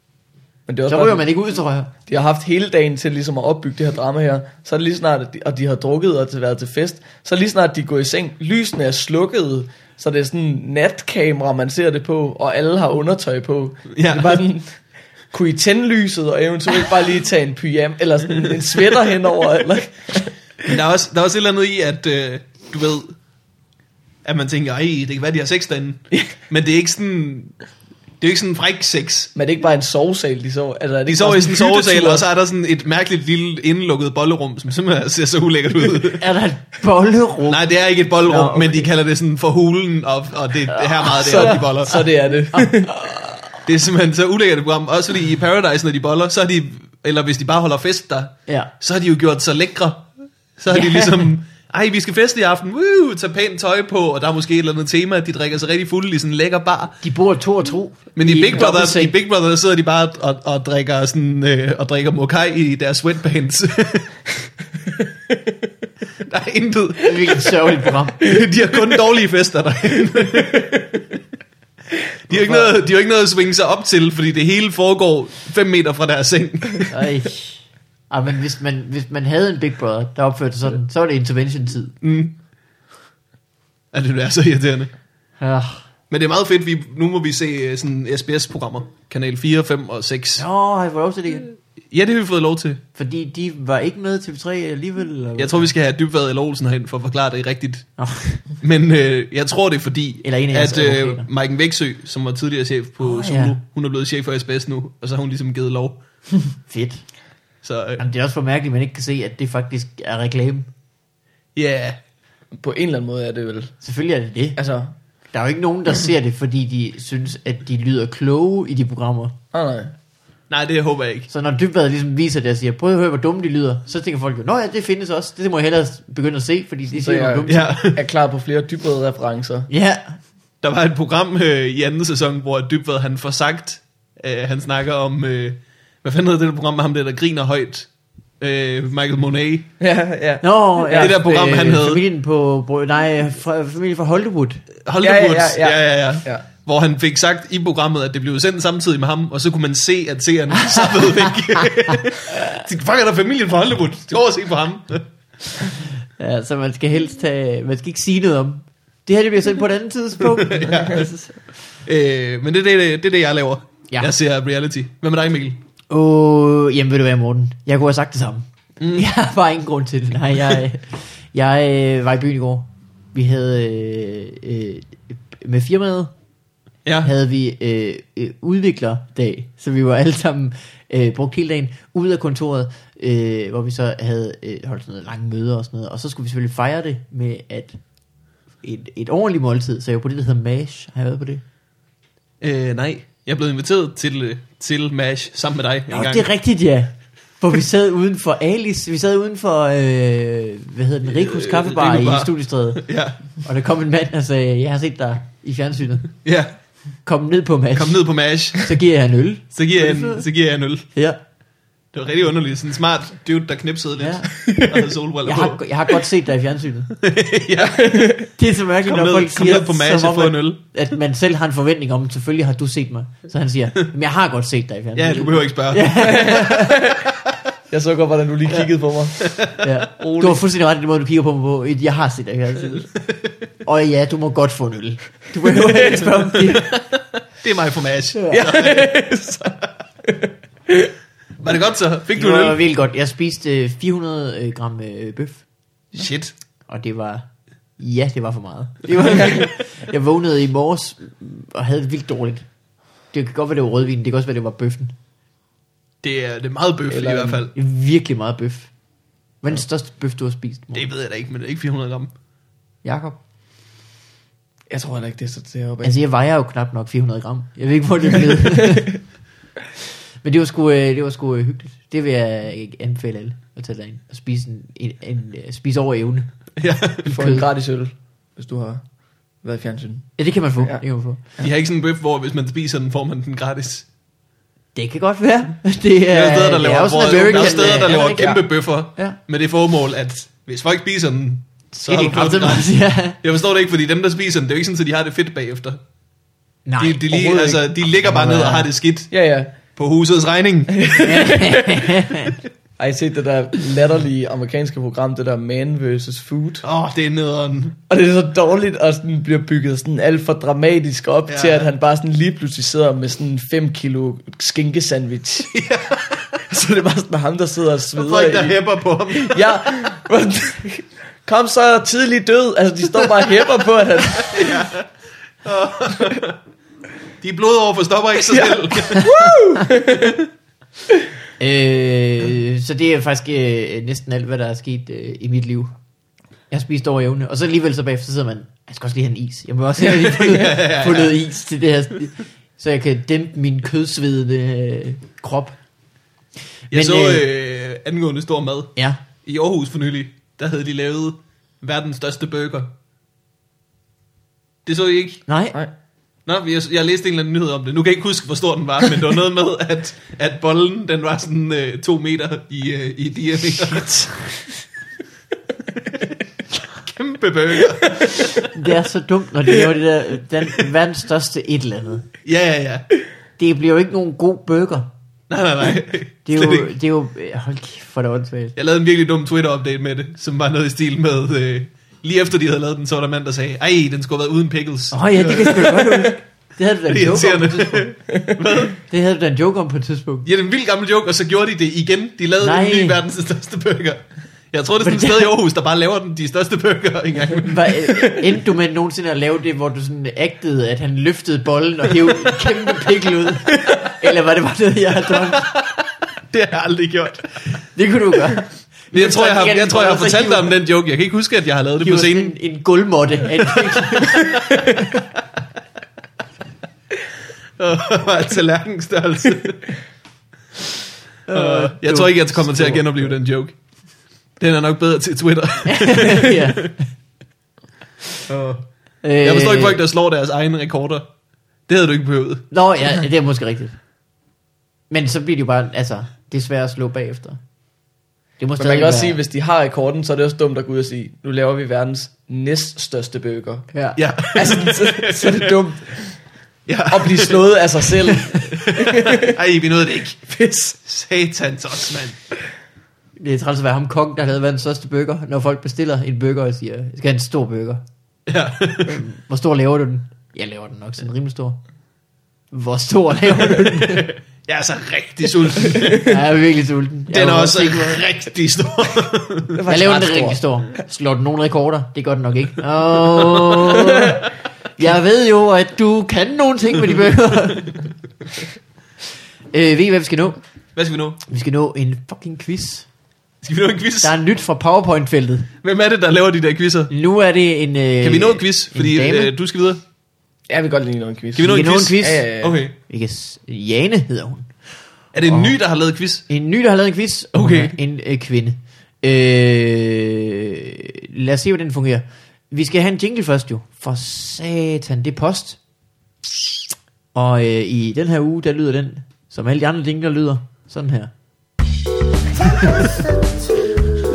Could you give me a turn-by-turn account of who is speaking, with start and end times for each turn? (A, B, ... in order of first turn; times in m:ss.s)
0:00.7-0:01.3 A
0:00.9-0:01.9 B
0:02.1-0:14.8 A
0:13.9-0:14.4 C
0:15.3-0:20.3 A
0:20.6-0:23.1 C
0:24.2-0:27.6 C
0:28.2-0:29.3 C
0:29.3-0:32.2 A
0:31.1-0:36.2 C
0:36.2-0:37.6 B
0:37.5-0:42.0 C
0:38.2-0:38.9 B
0:40.7-0:41.7 B
0:41.2-0:42.9 A
0:42.5-0:43.4 B
0:43.6-0:57.0 C
0:48.5-0:48.7 B
0:50.7-0:51.3 B
0:57.0-0:59.1 B
0:58.2-1:04.3 C
1:06.2-1:07.5 C
1:07.0-1:08.3 B
1:08.2-1:10.8 C
1:12.3-1:17.0 C
1:16.9-1:21.9 B
1:22.0-1:22.3 C
1:23.9-1:24.9 C
1:25.4-1:25.8 B
1:26.1-1:30.4 C
1:30.4-1:31.5 B
1:31.9-1:32.8 C
1:33.0-1:35.7 B
1:35.4-1:46.0 C
1:38.0-1:38.4 B
1:40.2-1:41.3 B
1:43.0-1:43.6 B
1:46.7-1:47.1 B
1:47.6-1:48.0 C
1:48.0-1:50.7 B
1:51.6-1:52.0 C
1:52.5-1:53.7 A
1:53.8-1:54.6 B
1:54.6-1:54.9 A
1:55.3-1:59.3 B
1:59.5-1:59.9 A
2:00.5-2:01.3 C
2:01.3-2:07.7 B
2:06.9-2:09.7 A
2:07.5-2:08.0 C
2:09.7-2:10.2 B
2:10.6-2:17.9 C
2:18.4-2:19.7 C
2:19.8-2:21.1 A
2:20.4-2:24.6 B
2:21.0-2:22.0 C
2:24.8-2:35.0 C
2:25.0-2:26.4 A
2:30.6-2:31.7 B
2:36.2-2:41.3 B
2:40.3-2:41.1 C
2:41.8-2:45.6 C
2:45.9-2:56.1 B
2:48.8-2:49.1 C
2:56.8-2:57.1 C
2:57.0-3:07.8 B
3:08.6-3:11.4 B
3:12.4-3:16.3 C
3:15.9-3:22.8 B
3:21.1-3:23.2 C
3:23.4-3:26.1 B
3:26.2-3:26.6 C
3:27.0-3:28.0 B
3:27.7-3:28.7 C
3:28.5-3:30.2 B
3:29.5-3:30.9 C
3:30.9-3:31.2 B
3:31.9-3:36.0 C
3:34.0-3:36.9 B
3:37.0-3:37.9 C
3:37.8-3:38.3 A
3:38.4-3:46.8 B
3:38.8-3:40.6 C
3:44.9-3:46.4 C
3:46.0-3:47.0 A
3:47.7-3:49.1 A
3:49.2-3:49.7 C
3:49.6-3:52.9 B
3:50.0-3:50.4 A
3:53.6-3:56.7 B
3:56.3-3:56.8 C
3:57.4-3:59.5 C
3:58.1-3:58.4 B
3:58.3-3:59.5 A
4:01.4-4:02.6 C
4:02.1-4:05.4 B
4:05.9-4:06.3 C
4:06.7-4:07.3 B
4:07.8-4:12.4 B
4:13.1-4:14.9 B
4:16.0-4:17.5 C
4:16.9-4:17.4 A
4:17.5-4:18.7 B
4:19.4-4:20.8 B
4:20.7-4:22.1 C
4:22.8-4:23.2 B
4:24.7-4:26.0 A
4:25.8-4:29.0 B
4:30.2-4:36.3 B
4:36.6-4:37.4 C
4:37.0-4:38.8 A
4:37.1-4:37.4 B
4:39.4-4:40.8 A
4:40.2-4:41.2 B
4:41.4-4:43.8 C
4:44.7-4:49.2 B
4:46.1-4:55.8 C
4:51.7-4:53.2 B
4:56.6-4:58.7 B
4:56.8-5:01.2 C
4:59.1-4:59.5 A
5:00.8-5:01.8 A
5:01.0-5:02.4 B
5:02.8-5:06.6 A
5:06.6-5:07.8 C
5:07.9-5:15.5 A
5:11.3-5:11.6 C
5:15.5-5:16.4 C
5:16.5-5:18.6 A
5:18.0-5:19.9 C
5:19.1-5:24.5 A
5:24.2-5:24.9 C
5:25.4-5:26.4 C
5:27.2-5:29.1 C
5:28.2-5:30.2 A
5:31.4-5:35.7 B
5:36.5-5:45.6 B
5:39.8-5:41.2 C
5:46.7-5:47.2 B
5:46.7-5:52.7 C
5:54.6-5:55.2 C
5:55.3-5:55.6 B
5:56.2-6:04.1 C
6:06.8-6:08.5 C
6:08.5-6:12.1 B
6:12.2-6:12.9 C
6:13.4-6:14.9 B
6:15.3-6:16.7 C
6:16.2-6:18.5 B
6:18.6-6:26.2 C
6:24.9-6:27.9 B
6:26.9-6:28.8 C
6:28.7-6:30.3 B
6:30.2-6:37.8 C
6:32.4-6:33.0 B
6:34.8-6:35.4 B
6:37.4-6:45.5 B
6:45.1-6:47.6 C
6:47.8-6:50.5 B
6:48.9-6:52.3 C
6:51.8-6:54.8 B
6:53.9-6:54.8 C
6:57.6-6:59.8 C
7:01.3-7:03.1 B
7:01.3-7:03.6 C
7:04.4-7:06.7 C
7:05.6-7:06.8 B
7:08.3-7:11.1 C
7:09.0-7:09.8 B
7:11.7-7:12.4 C
7:12.5-7:13.8 B
7:14.9-7:17.4 B
7:18.4-7:19.2 B
7:18.6-7:23.7 A
7:23.7-7:24.0 B
7:24.0-7:25.5 C
7:24.3-7:26.1 A
7:26.7-7:27.4 C
7:26.9-7:29.3 A
7:28.3-7:32.2 C
7:30.3-7:30.7 A
7:33.2-7:37.8 B
7:38.3-7:39.0 C
7:38.9-7:41.6 B
7:42.5-7:44.1 B
7:43.8-7:46.2 C
7:46.0-7:48.0 B
7:47.1-7:49.5 C
7:49.5-7:50.4 A
7:49.7-7:54.2 B
7:53.1-7:53.8 C
7:54.8-7:57.8 B
7:59.5-8:00.4 B
8:00.8-8:01.2 C
8:01.3-8:02.9 B
8:03.4-8:04.2 C
8:04.0-8:05.5 B
8:05.6-8:06.9 C
8:06.9-8:09.3 B
8:08.0-8:09.8 C
8:10.5-8:12.6 A
8:11.4-8:12.7 C
8:11.4-8:12.2 B
8:12.8-8:14.5 B
8:15.1-8:16.2 C
8:15.3-8:15.6 B
8:16.3-8:25.6 B
8:17.3-8:17.8 C
8:27.1-8:31.1 B
8:32.4-8:33.6 B